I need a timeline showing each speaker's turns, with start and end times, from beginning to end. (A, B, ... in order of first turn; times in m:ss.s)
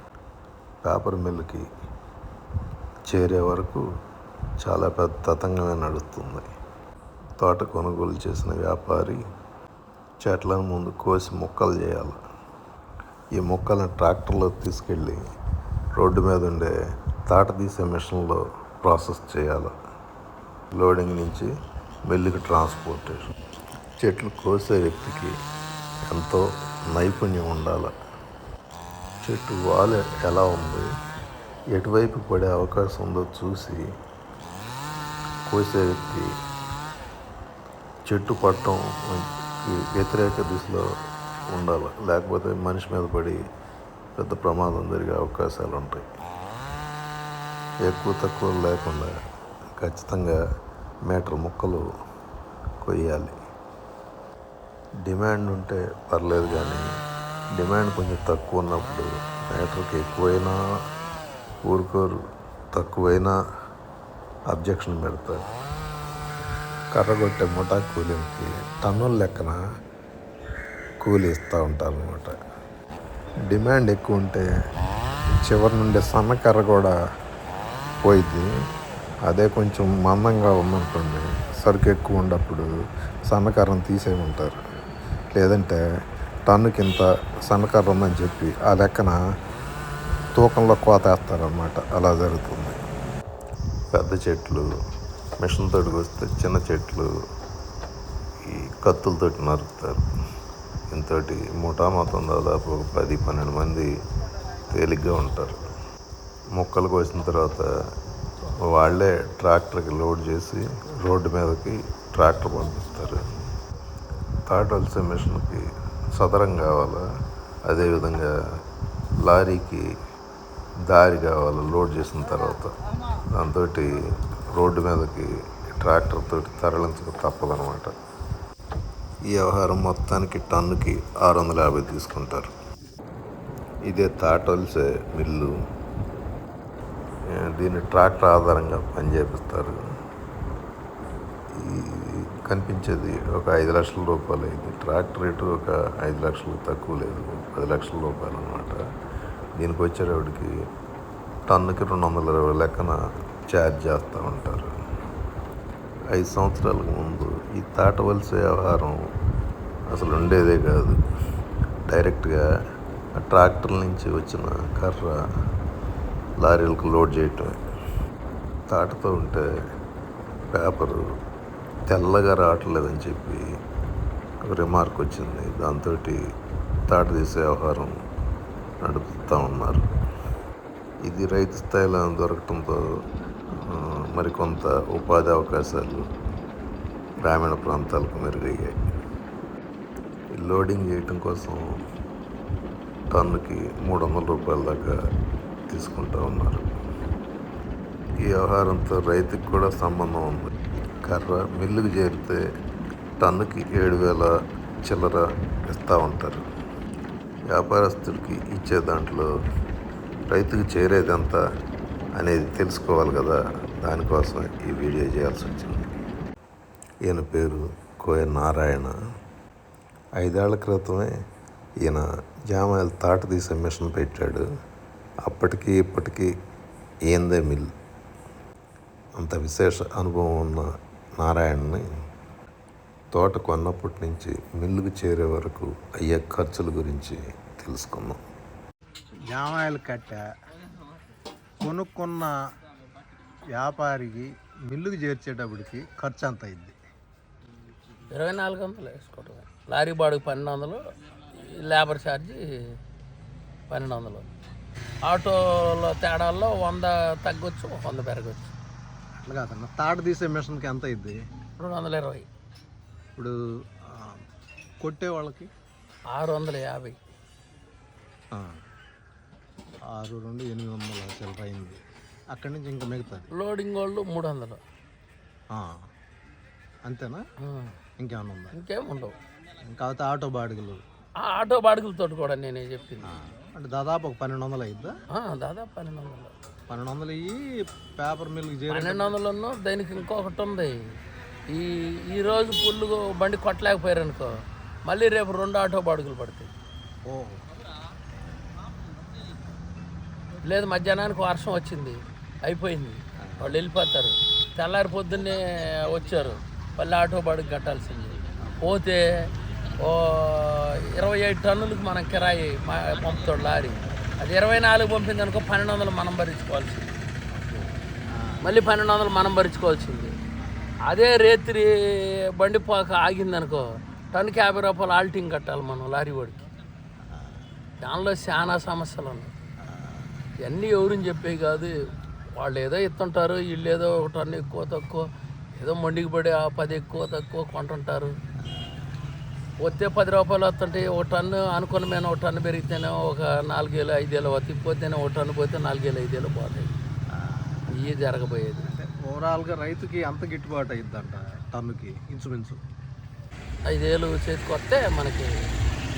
0:00.8-0:01.6 A
0:03.1-0:03.8 A
0:04.6-0:06.5 A
0:07.4-0:09.2 A
0:10.2-0:12.2 A
0:13.3-0:15.2 A
0:16.0-0:16.7 A
0:17.3-0:19.7 A
0:20.7-0:21.5 A
0:22.0-0:23.3 A
0:24.0-0:25.3 A
0:26.1-0:27.9 A
0:29.2-0:30.9 A
0:31.7-0:33.8 A
0:35.5-0:36.3 A
0:38.0-0:40.9 A
0:41.5-0:43.4 A
0:44.2-0:46.1 A
0:47.8-0:49.1 A
0:49.8-0:50.4 A
0:51.1-0:51.8 A
0:52.8-0:53.4 A
0:55.0-0:56.8 A
0:57.6-1:00.6 A
1:01.6-1:02.2 A
1:02.7-1:03.3 A
1:04.5-1:05.4 A
1:06.9-1:09.6 A
1:11.0-1:12.3 A
1:13.5-1:14.4 A
1:15.5-1:16.9 A
1:18.0-1:18.4 A
1:19.3-1:22.6 A
1:23.3-1:24.6 A
1:26.5-1:27.0 A
1:27.6-1:28.4 A
1:33.9-1:34.7 A
1:35.4-1:37.1 A
1:38.5-1:40.0 A
1:40.9-1:43.9 A
1:44.7-1:45.7 A
1:46.5-1:47.7 A
1:48.7-1:53.3 A
1:54.5-1:57.0 A
1:57.7-1:58.3 A
1:59.2-1:59.8 A
2:00.9-2:02.7 A
2:03.3-2:04.0 A
2:04.5-2:07.9 A
2:09.3-2:12.5 A
2:13.8-2:15.5 A
2:17.3-2:19.8 A
2:21.6-2:28.8 A
2:29.6-2:30.5 A
2:31.5-2:33.0 A
2:33.5-2:34.7 A
2:36.1-2:39.0 A
2:39.9-2:41.0 A
2:41.9-2:42.4 A
2:43.2-2:45.1 A
2:46.4-2:47.6 A
2:48.7-2:49.4 A
2:50.5-2:51.0 A
2:51.9-2:53.4 A
2:54.4-2:56.2 A
2:56.9-2:58.0 A
2:58.8-2:59.8 A
3:01.0-3:02.8 A
3:03.6-3:06.0 A
3:07.2-3:08.8 A
3:10.3-3:11.6 A
3:13.1-3:15.0 A
3:15.7-3:16.6 A
3:18.2-3:22.4 A
3:23.2-3:26.4 A
3:27.5-3:29.3 A
3:30.3-3:31.4 A
3:32.2-3:35.9 A
3:37.1-3:38.9 A
3:40.2-3:41.1 A
3:41.8-3:44.4 A
3:45.2-3:46.3 A
3:47.1-3:47.7 A
3:49.2-3:50.7 A
3:51.2-3:51.8 A
3:53.1-3:58.2 A
3:59.3-4:00.2 B
4:01.6-4:02.3 B
4:03.5-4:06.8 B
4:08.1-4:12.4 C
4:13.7-4:14.3 C
4:15.0-4:18.5 C
4:19.2-4:21.2 B
4:21.6-4:22.3 C
4:23.8-4:24.2 B
4:24.8-4:25.5 B
4:26.1-4:27.0 C
4:28.3-4:28.6 B
4:29.9-4:31.8 B
4:32.3-4:33.3 B
4:33.3-4:34.6 C
4:35.5-4:35.8 B
4:36.8-4:37.2 B
4:37.4-4:37.8 C
4:38.0-4:38.5 B
4:38.5-4:39.2 C
4:39.7-4:40.8 B
4:41.2-4:43.1 C
4:43.0-4:44.9 B
4:45.1-4:46.3 C
4:46.7-4:49.2 B
4:48.7-4:50.8 C
4:51.5-4:56.5 C
4:57.0-4:57.4 B
5:00.4-5:09.3 C
5:03.2-5:03.6 B
5:09.8-5:16.9 C
5:17.3-5:18.5 B
5:18.4-5:20.1 C
5:20.9-5:26.5 C
5:27.1-5:27.4 B
5:27.8-5:29.3 C
5:29.6-5:30.1 B
5:30.4-5:31.7 C
5:32.4-5:35.0 C
5:35.6-5:38.1 C
5:38.4-5:39.0 B
5:39.6-5:46.7 C
5:47.1-5:47.7 B
5:47.7-5:48.7 C
5:48.6-5:52.6 B
5:53.7-5:55.3 C